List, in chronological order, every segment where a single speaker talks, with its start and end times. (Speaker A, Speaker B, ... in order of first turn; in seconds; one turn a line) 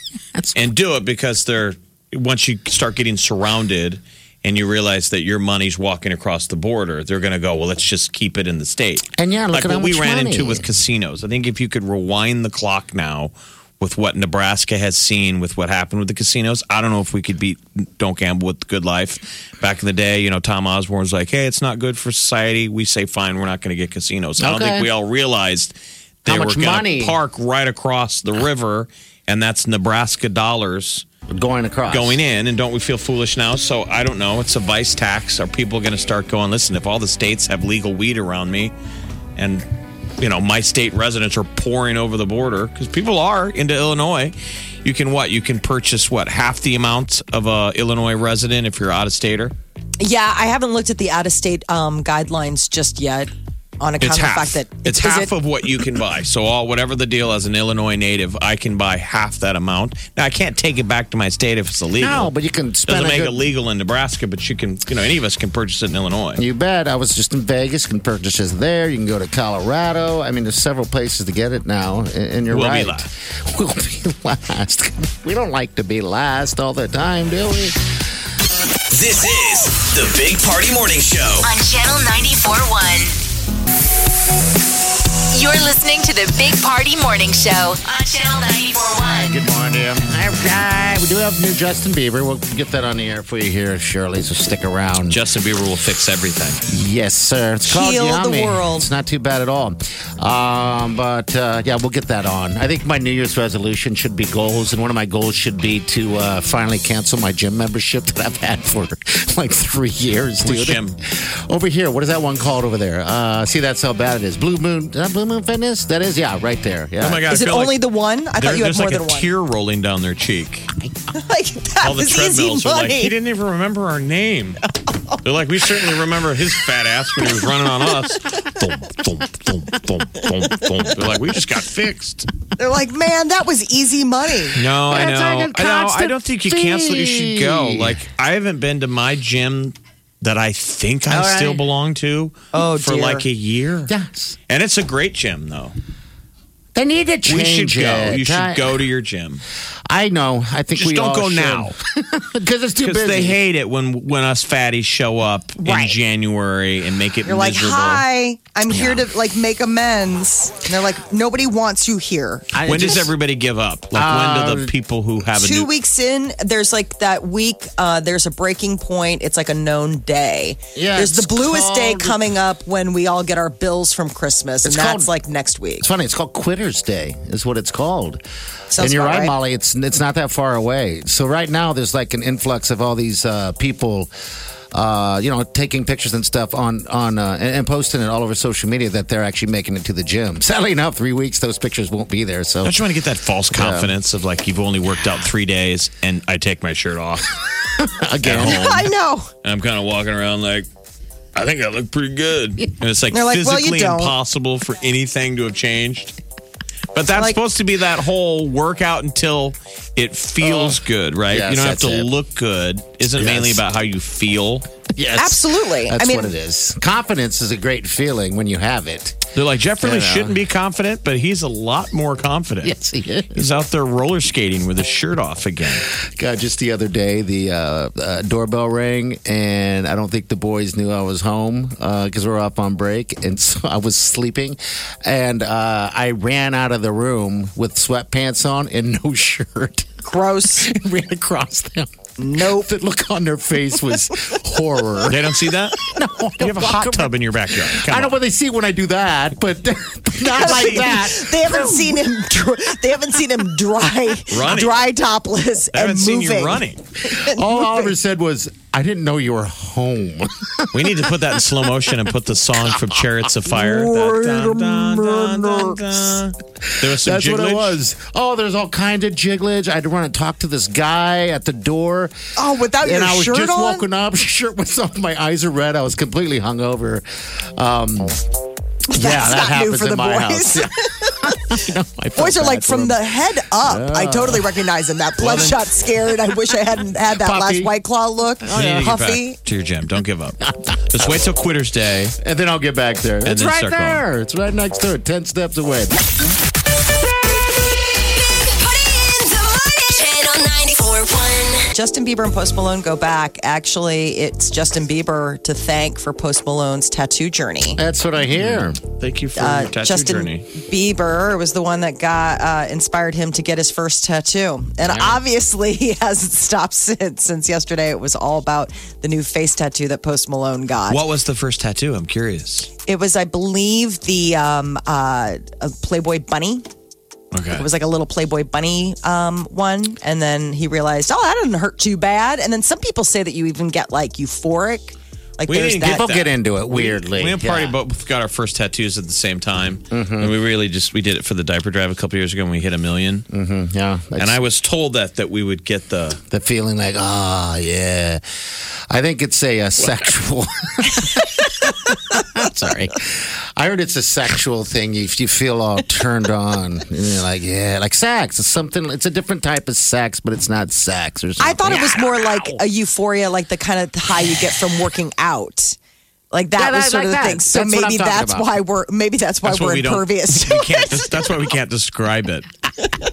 Speaker A: 0.3-0.7
Speaker B: 0.5-31.1
Speaker A: 9.2-10.6
Speaker A: 24.4-24.9
Speaker A: 26.3-27.2
Speaker A: 31.3-32.2
Speaker B: 31.9-38.7
Speaker B: 39.4-39.6
Speaker B: 40.2-49.5
Speaker C: 50.0-55.3
Speaker B: 54.0-62.3
Speaker A: 62.0-63.4
Speaker B: 62.9-66.4
Speaker A: 66.4-77.8
Speaker B: 72.5-73.1
Speaker D: 78.9-81.5
Speaker E: 81.4-83.2
Speaker E: 85.3-89.4
Speaker A: 89.2-95.2
Speaker B: 95.0-96.6
Speaker A: 96.7-117.2
Speaker C: 97.6-98.9
Speaker B: 110.4-111.0
Speaker B: 117.0-117.8
Speaker C: 117.3-119.3
Speaker B: 118.4-120.7
Speaker C: 121.1-123.1
Speaker B: 121.8-124.6
Speaker B: 125.2-132.3
Speaker C: 132.6-134.6
Speaker B: 134.6-143.9
Speaker A: 134.9-138.0
Speaker A: 141.1-141.6
Speaker C: 142.5-143.2
Speaker A: 143.9-144.4
Speaker B: 144.5-145.7
Speaker A: 146.7-148.8
Speaker B: 147.2-149.4
Speaker A: 149.9-153.4
Speaker B: 150.7-151.7
Speaker B: 152.8-158.0
Speaker C: 155.6-156.0
Speaker C: 157.2-162.5
Speaker B: 158.7-159.0
Speaker A: 162.5-163.1
Speaker B: 162.6-165.7
Speaker A: 163.9-164.7
Speaker C: 165.4-175.9
Speaker A: 170.7-172.3
Speaker A: 174.6-175.1
Speaker A: 175.8-178.2
Speaker C: 178.7-179.3
Speaker A: 178.7-184.1
Speaker A: 184.7-192.8
Speaker B: 192.6-197.3
Speaker A: 193.5-193.9
Speaker A: 197.8-198.7
Speaker B: 198.2-198.9
Speaker C: 198.4-199.3
Speaker B: 199.4-200.7
Speaker B: 201.3-206.1
Speaker C: 203.1-204.1
Speaker B: 206.9-214.7
Speaker C: 207.1-207.4
Speaker A: 210.4-212.1
Speaker A: 213.1-213.6
Speaker A: 214.9-219.2
Speaker C: 215.1-216.3
Speaker B: 219.3-222.7
Speaker A: 219.8-220.4
Speaker A: 222.6-223.5
Speaker B: 223.3-225.9
Speaker A: 225.9-245.3
Speaker C: 240.0-240.7
Speaker C: 242.2-242.7
Speaker B: 245.1-248.2
Speaker A: 245.8-252.0
Speaker C: 250.3-257.9
Speaker B: 250.4-250.9
Speaker B: 254.3-254.8
Speaker B: 255.7-256.8
Speaker A: 257.1-261.9
Speaker B: 260.7-267.8
Speaker A: 262.6-265.8
Speaker A: 266.6-272.1
Speaker C: 272.4-273.9
Speaker A: 272.8-278.2
Speaker C: 278.9-281.5
Speaker A: 278.9-283.0
Speaker C: 282.1-289.4
Speaker A: 283.6-284.5
Speaker B: 285.2-285.6
Speaker A: 287.1-287.7
Speaker A: 288.4-288.9
Speaker B: 288.5-292.1
Speaker A: 290.5-291.0
Speaker A: 292.2-295.9
Speaker B: 293.2-294.0
Speaker E: 298.6-301.6
Speaker C: 301.7-307.8
Speaker A: 307.8-308.8
Speaker B: 308.3-310.5
Speaker C: 309.3-321.0
Speaker A: 314.8-315.2
Speaker B: 320.9-322.7
Speaker C: 322.8-326.6
Speaker B: 327.3-327.6
Speaker C: 327.5-336.1
Speaker B: 335.5-343.2
Speaker A: 335.8-337.8
Speaker A: 339.9-340.3
Speaker A: 343.3-344.4
Speaker B: 344.2-346.2
Speaker A: 346.3-348.2
Speaker A: 348.9-362.1
Speaker C: 361.4-365.8
Speaker C: 366.3-371.3
Speaker A: 366.6-368.6
Speaker B: 369.4-372.5